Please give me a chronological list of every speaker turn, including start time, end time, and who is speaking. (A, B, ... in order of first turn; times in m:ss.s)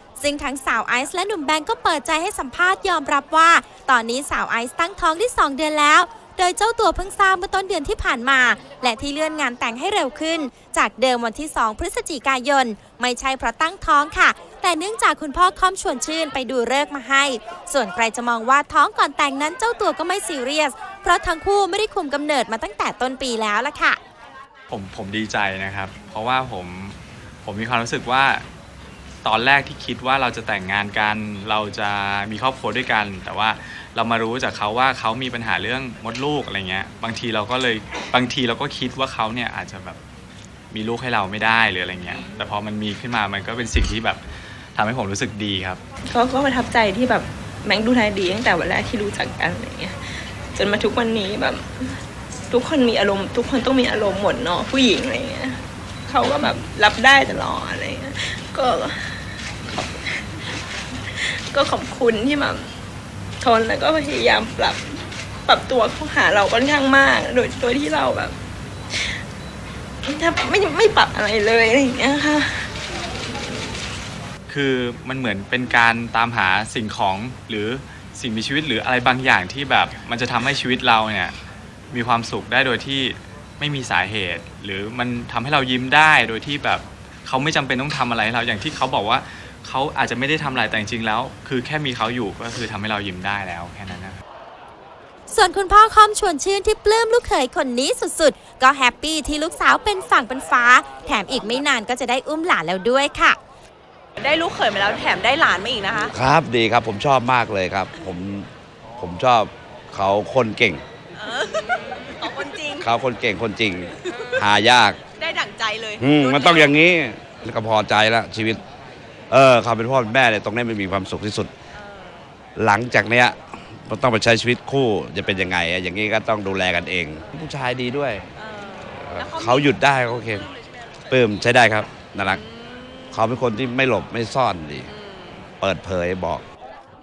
0:00.2-0:24.0 A
0:24.7-0:28.4 B
0:29.2-0:40.0 B
0:40.7-0:44.2 B
0:44.7-0:45.8 B
0:46.0-0:50.0 C
0:50.6-0:52.0 C
0:52.5-1:00.4 C
1:01.1-1:02.7 C
1:03.4-1:08.4 C
1:10.0-1:12.7 C
1:14.5-1:21.3 B
1:21.9-1:34.2 B
1:35.3-1:43.4 A
1:44.2-1:46.1 D
1:46.1-1:48.5 E
1:49.0-1:50.8 E
1:51.1-1:52.9 D
1:52.8-1:55.0 E
1:54.0-1:54.4 D
1:55.1-1:56.8 D
1:56.0-1:58.6 E
1:59.3-2:01.5 E
2:01.8-2:02.2 D
2:02.6-2:08.2 E
2:08.4-2:09.8 D
2:08.9-2:10.5 E
2:11.1-2:12.4 E
2:12.3-2:13.1 D
2:13.1-2:14.9 E
2:14.9-2:15.4 D
2:15.6-2:16.4 E